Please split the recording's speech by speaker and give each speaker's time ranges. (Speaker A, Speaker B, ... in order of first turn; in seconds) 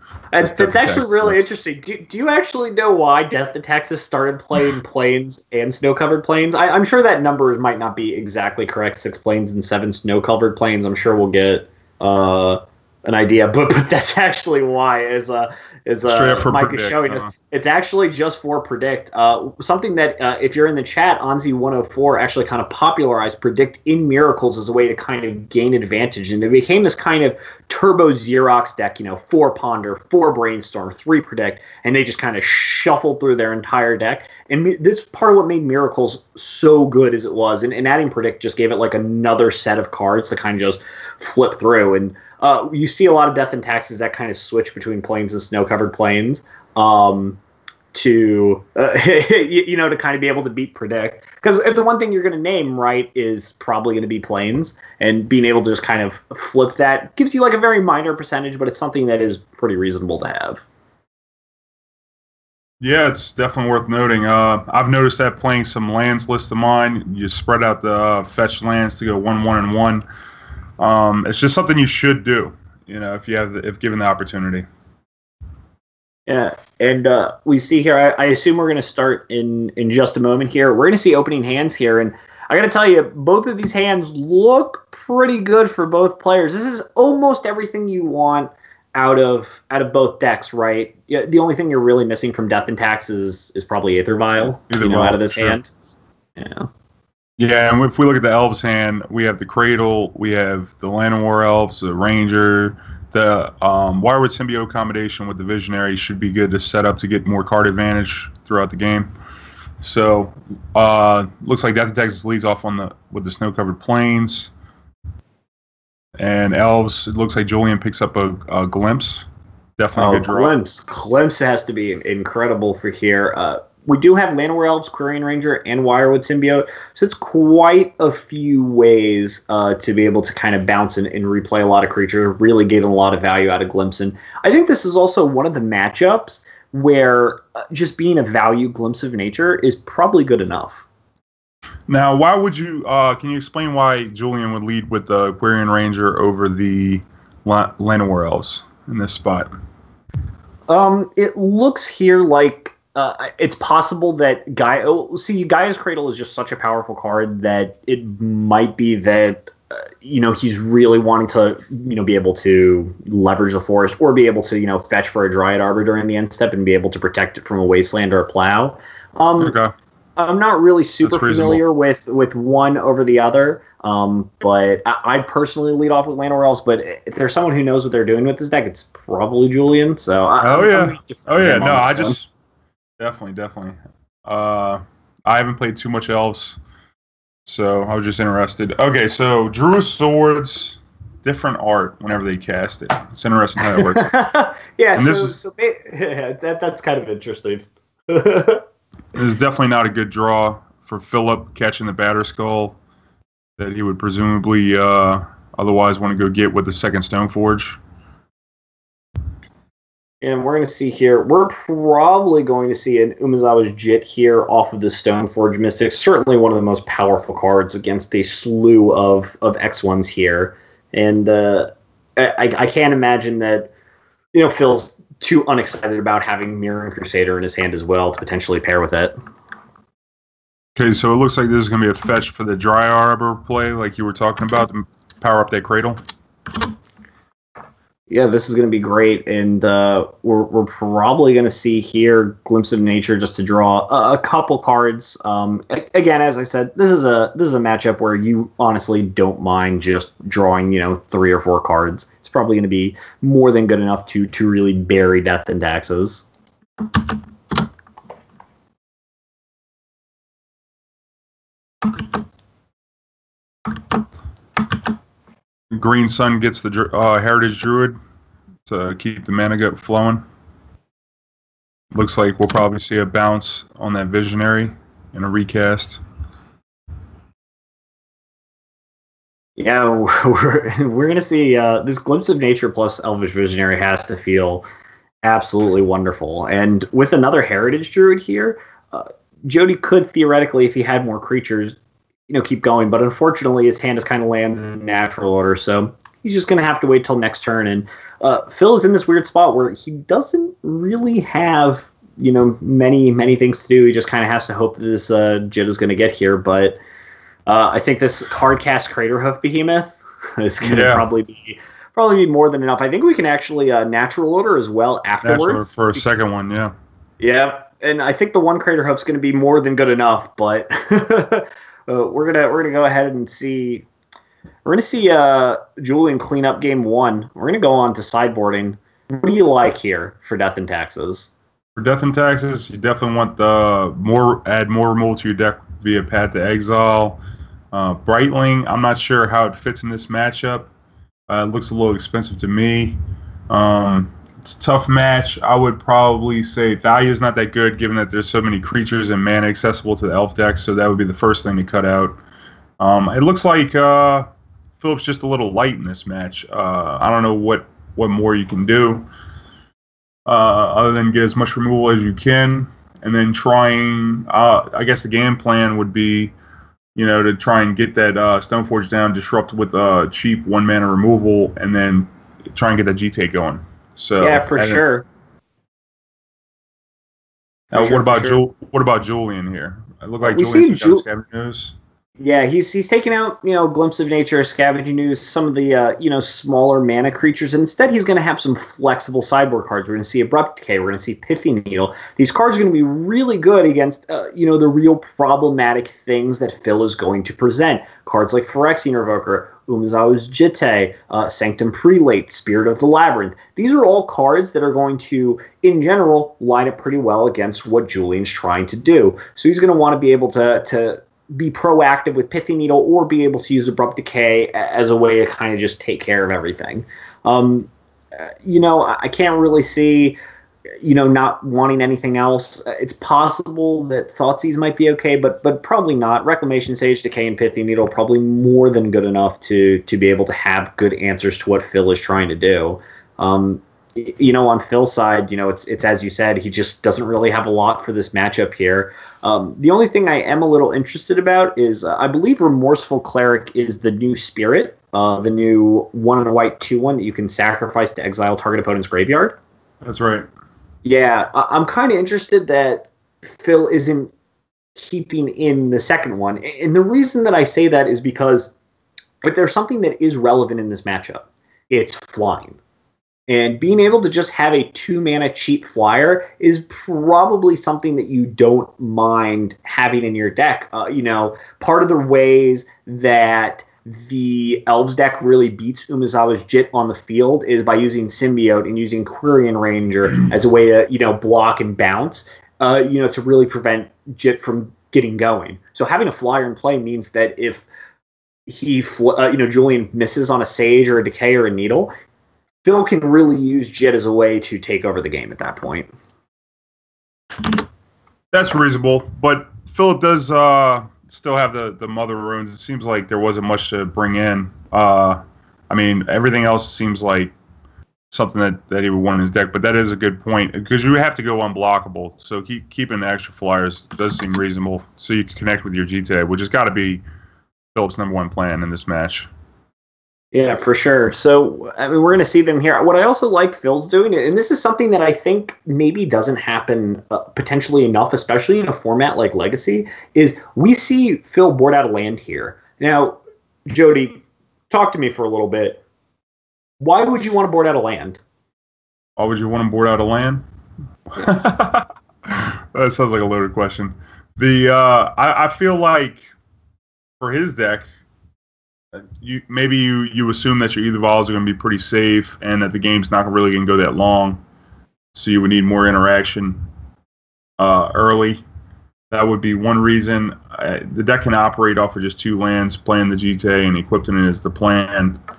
Speaker A: 0.3-47.4, 47.9-60.6, 76.3-95.7, 96.4-96.7, 120.0-140.8, 150.7-169.6, 170.2-182.2, 193.6-198.6, 210.2-223.7, 224.3-229.1, 238.1-256.3, 279.6-284.6, 285.2-291.7, 292.3-306.8, 307.4-315.7, 317.2-323.9, 324.6-331.3, 374.2-375.1, 377.7-378.4, 380.2-381.0, 382.2-420.2, 420.8-449.4, 450.8-454.1, 454.8-458.5, 459.2-462.6, 463.3-487.7, 488.5-491.9, 492.6-495.9, 520.3-535.8, 536.8-538.2
Speaker B: 0.4-1.6, 16.1-17.3, 62.8-70.0, 70.8-74.7, 94.6-95.6, 97.4-109.1, 109.8-114.5, 116.2-119.3, 119.8-120.5, 141.9-149.5, 169.4-169.7, 171.0-171.6, 180.4-182.3, 183.0-186.6, 187.4-194.1, 194.9-195.4, 199.1-202.8, 203.6-207.8, 230.8-236.0, 265.7-267.9, 268.6-270.2, 271.9-276.0, 310.6-311.0, 315.2-316.7, 331.8-337.2, 337.7-340.7, 341.3-343.0, 343.5-352.2, 352.8-354.3, 354.8-359.1, 360.2-366.3, 366.9-374.8, 377.7-381.7, 449.8-450.3, 498.3-507.3, 508.1-517.0, 517.7-519.3, 539.2-540.4, 541.1-546.2, 547.2-547.9, 548.9-554.4, 555.1-556.6, 557.6-558.4, 559.1-565.2